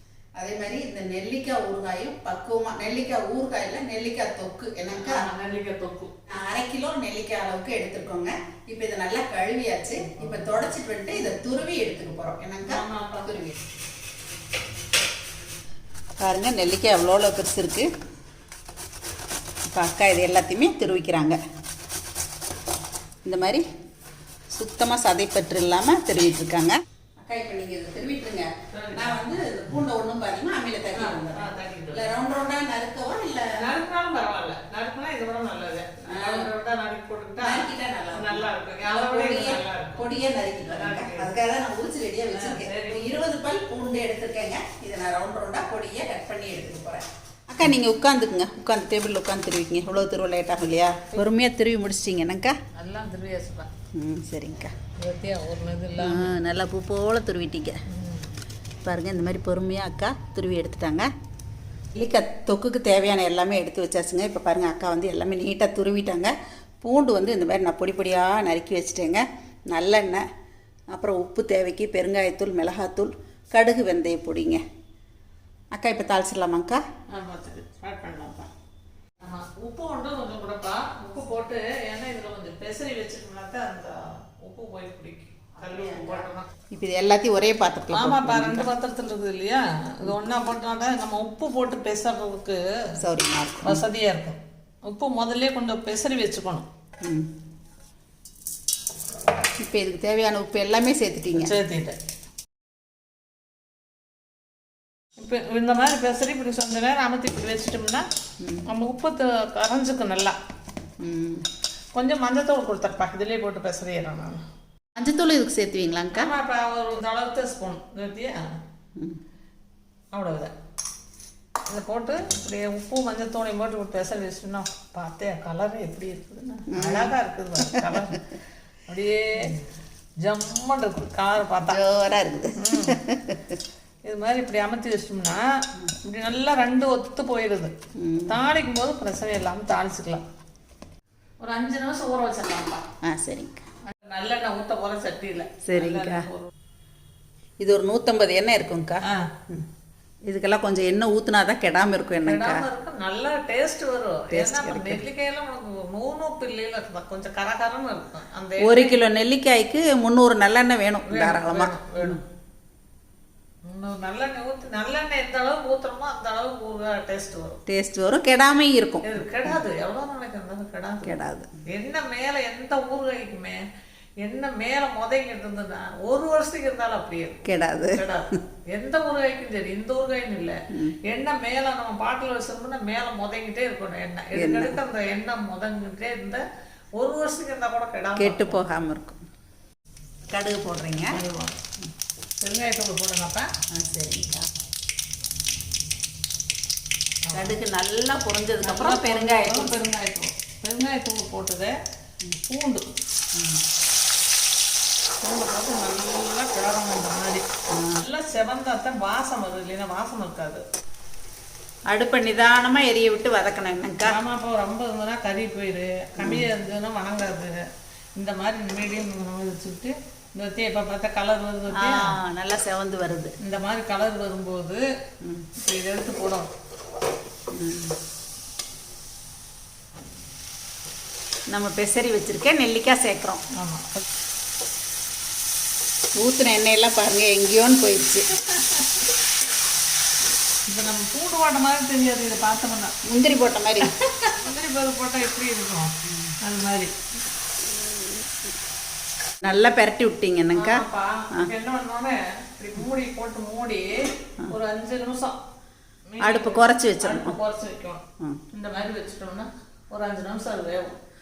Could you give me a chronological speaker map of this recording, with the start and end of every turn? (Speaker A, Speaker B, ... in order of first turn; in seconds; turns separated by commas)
Speaker A: 0.4-5.2, Speaker B: 4.9-6.1, Speaker A: 6.3-13.5, Speaker B: 12.7-13.4, Speaker A: 16.2-17.9, Speaker A: 19.7-21.4, Speaker A: 23.2-23.6, Speaker A: 24.5-33.5, Speaker B: 28.7-29.2, Speaker B: 30.9-32.1, Speaker B: 33.5-40.0, Speaker A: 36.1-36.5, Speaker A: 37.4-52.5, Speaker B: 40.7-41.4, Speaker B: 42.3-43.1, Speaker B: 52.7-53.7, Speaker A: 53.9-54.7, Speaker B: 55.0-56.3, Speaker A: 56.0-57.8, Speaker B: 57.9-58.3, Speaker A: 58.8-61.1, Speaker A: 61.9-70.2, Speaker A: 70.9-74.6, Speaker A: 75.7-76.8, Speaker B: 77.1-78.5, Speaker B: 79.2-86.5, Speaker A: 85.6-88.7, Speaker B: 87.9-92.6, Speaker A: 93.0-93.8, Speaker B: 93.6-96.7, Speaker A: 97.0-97.3, Speaker A: 99.6-101.5, Speaker B: 101.3-102.0, Speaker B: 105.2-108.0, Speaker B: 108.7-110.3, Speaker A: 111.0-111.4, Speaker B: 111.9-114.4, Speaker A: 115.0-116.3, Speaker B: 116.1-118.4, Speaker B: 120.1-120.5, Speaker B: 121.7-128.2, Speaker A: 126.7-127.1, Speaker A: 127.6-127.9, Speaker B: 128.9-129.6, Speaker B: 130.2-131.8, Speaker A: 131.6-133.6, Speaker B: 132.6-133.0, Speaker B: 134.0-135.4, Speaker B: 136.0-137.7, Speaker A: 138.0-138.3, Speaker B: 138.3-140.2, Speaker B: 141.4-142.8, Speaker A: 143.0-143.6, Speaker B: 143.9-146.5, Speaker A: 145.6-146.3, Speaker A: 147.6-149.6, Speaker B: 149.0-149.3, Speaker A: 150.3-152.6, Speaker B: 152.2-158.9, Speaker A: 154.3-155.0, Speaker A: 158.6-162.2, Speaker B: 161.1-162.2, Speaker B: 163.7-167.6, Speaker A: 167.7-169.6, Speaker B: 169.0-171.1, Speaker A: 171.0-171.5, Speaker B: 171.6-173.6, Speaker B: 174.2-186.4, Speaker A: 177.4-178.0, Speaker A: 184.3-184.8, Speaker B: 187.0-188.6, Speaker A: 188.2-189.2, Speaker A: 190.3-191.2, Speaker B: 191.1-191.6, Speaker B: 192.4-193.5, Speaker A: 193.7-194.5, Speaker B: 197.2-197.5, Speaker A: 197.3-199.8, Speaker B: 198.6-201.8, Speaker B: 202.4-202.9, Speaker A: 203.3-203.6, Speaker B: 205.2-207.4, Speaker A: 207.7-208.0, Speaker B: 208.0-210.6, Speaker A: 211.9-214.2, Speaker B: 214.0-217.6, Speaker A: 216.2-216.4, Speaker B: 218.2-222.1, Speaker A: 221.7-223.3, Speaker B: 223.4-224.8, Speaker A: 225.2-225.5, Speaker B: 225.6-226.5, Speaker A: 227.5-227.9, Speaker A: 231.5-233.4, Speaker B: 233.6-234.0, Speaker A: 236.2-238.2, Speaker B: 238.5-239.0, Speaker B: 240.7-242.9, Speaker A: 243.1-243.9, Speaker B: 243.8-246.9, Speaker A: 246.1-246.3, Speaker A: 249.4-251.5, Speaker B: 250.6-255.4, Speaker B: 256.1-261.0, Speaker A: 256.2-257.3